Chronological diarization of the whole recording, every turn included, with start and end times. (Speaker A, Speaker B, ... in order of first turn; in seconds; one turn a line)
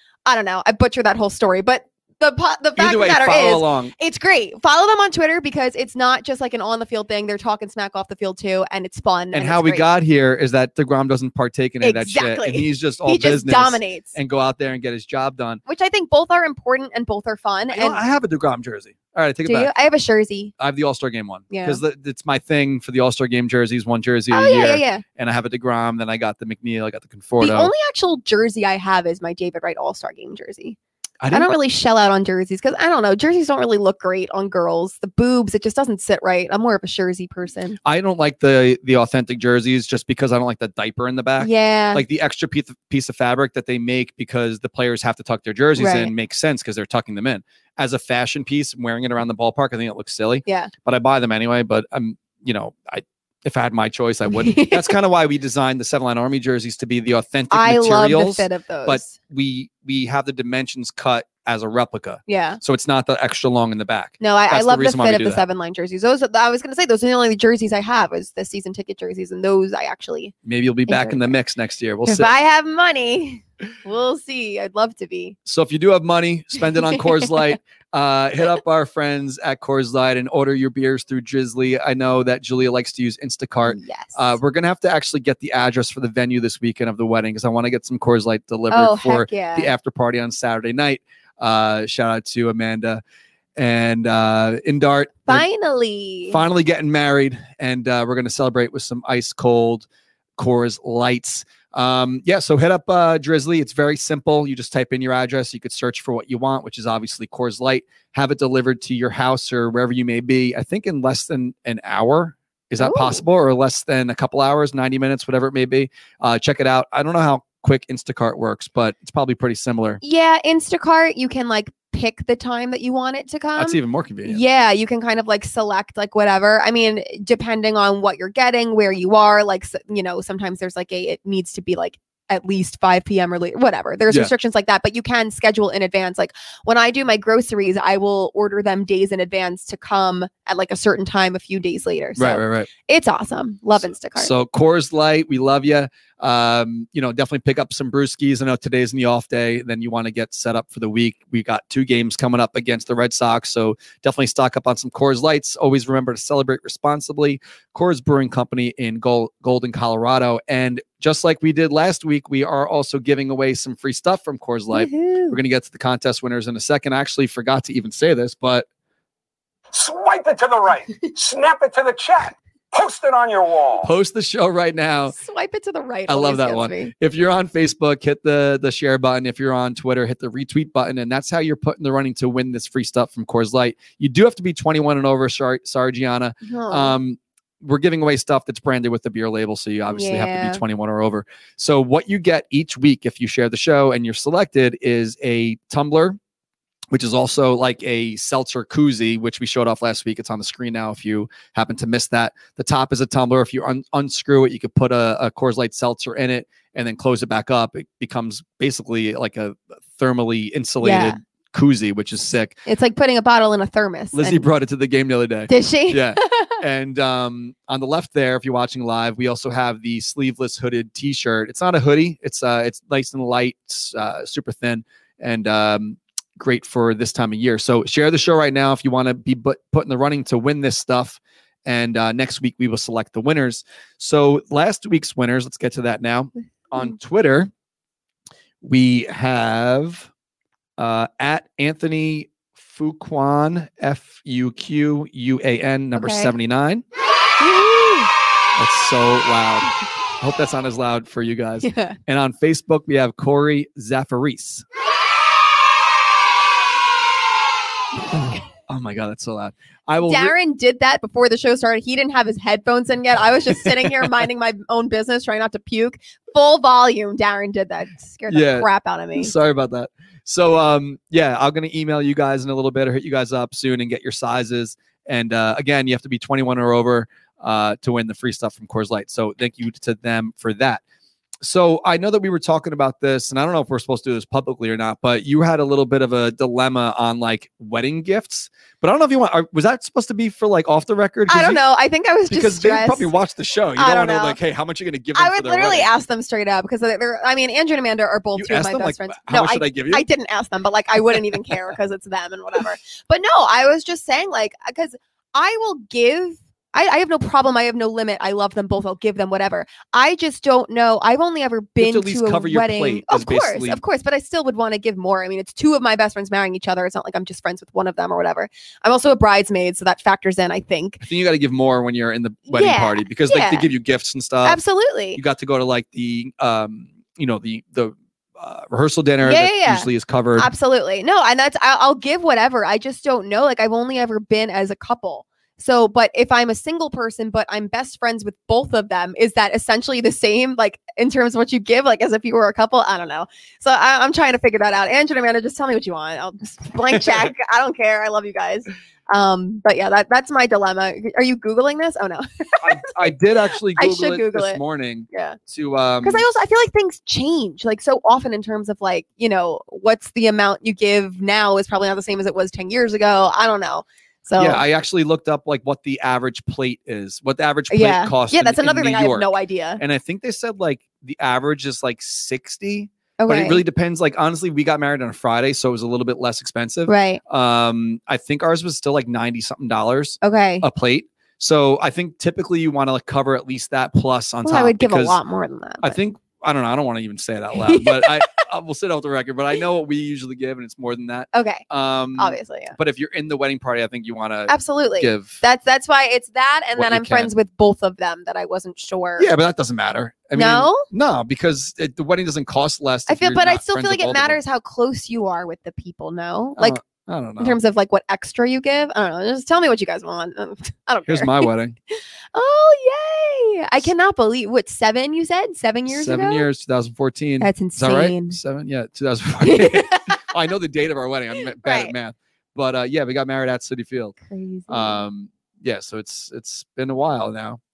Speaker A: 0.3-9.9
Speaker B: 2.8-3.9
Speaker B: 9.3-15.6
Speaker A: 11.8-14.1
Speaker A: 15.7-18.0
Speaker B: 17.7-19.7
Speaker A: 19.4-20.5
Speaker B: 20.6-27.7
Speaker A: 21.5-21.8
Speaker A: 24.3-25.0
Speaker A: 27.4-30.8
Speaker B: 31.2-31.5
Speaker A: 31.3-37.8
Speaker B: 37.8-65.4
Speaker A: 41.4-42.0
Speaker A: 45.8-46.1
Speaker A: 50.5-50.7
Speaker A: 54.3-55.0
Speaker A: 57.5-59.2
Speaker A: 62.3-62.6
Speaker A: 64.2-70.3
Speaker B: 70.5-72.3
Speaker A: 70.9-71.3
Speaker A: 72.1-75.4
Speaker B: 75.5-93.0
Speaker A: 76.9-77.3
Speaker A: 83.7-84.4
Speaker A: 88.7-89.7
Speaker B: 93.5-95.5
Speaker A: 95.3-96.4
Speaker B: 96.3-120.0
Speaker A: 112.8-113.2
Speaker A: 120.0-144.3
Speaker B: 123.5-124.4
Speaker B: 142.2-142.7
Speaker B: 144.2-168.7
Speaker A: 164.7-165.4
Speaker C: 169.7-173.9
Speaker B: 173.8-175.2
Speaker A: 175.1-176.9
Speaker B: 176.1-196.2
Speaker A: 186.4-186.9
Speaker A: 189.9-190.6
Speaker B: 196.9-212.6
Speaker A: 210.8-211.2
Speaker A: 212.7-214.5
Speaker B: 214.1-237.5
Speaker A: 215.5-216.6
Speaker B: 238.6-240.1
Speaker B: 240.8-246.8
Speaker A: 245.9-246.3
Speaker A: 247.4-248.1
Speaker B: 248.6-254.6
Speaker A: 251.6-252.0
Speaker B: 258.7-260.3
Speaker A: 260.0-269.4
Speaker B: 263.5-264.1
Speaker B: 268.3-280.8
Speaker B: 281.4-291.6
Speaker A: 291.3-293.1
Speaker B: 292.3-295.9
Speaker A: 293.8-294.4
Speaker A: 295.1-321.0
Speaker B: 298.4-300.1
Speaker B: 311.8-313.8
Speaker B: 321.0-324.6
Speaker A: 322.5-323.7
Speaker A: 324.4-325.2
Speaker B: 325.1-330.5
Speaker A: 329.2-353.1
Speaker B: 352.6-356.2
Speaker A: 353.7-355.4
Speaker A: 356.0-364.6
Speaker B: 364.4-385.2
Speaker A: 367.7-369.8
Speaker A: 373.2-373.6
Speaker A: 376.9-377.2
Speaker A: 380.2-380.7
Speaker A: 384.4-386.0
Speaker B: 385.8-395.4
Speaker A: 387.6-388.2
Speaker A: 391.3-391.6
Speaker A: 392.2-392.7
Speaker A: 394.5-399.3
Speaker B: 396.8-397.3
Speaker B: 399.2-404.4
Speaker A: 400.4-400.9
Speaker A: 403.1-406.8
Speaker B: 406.6-407.6
Speaker A: 407.4-416.5
Speaker B: 411.1-411.7
Speaker B: 415.9-424.2
Speaker A: 417.4-418.4
Speaker A: 419.4-420.2
Speaker A: 421.6-421.9
Speaker A: 424.2-425.0
Speaker B: 424.7-427.6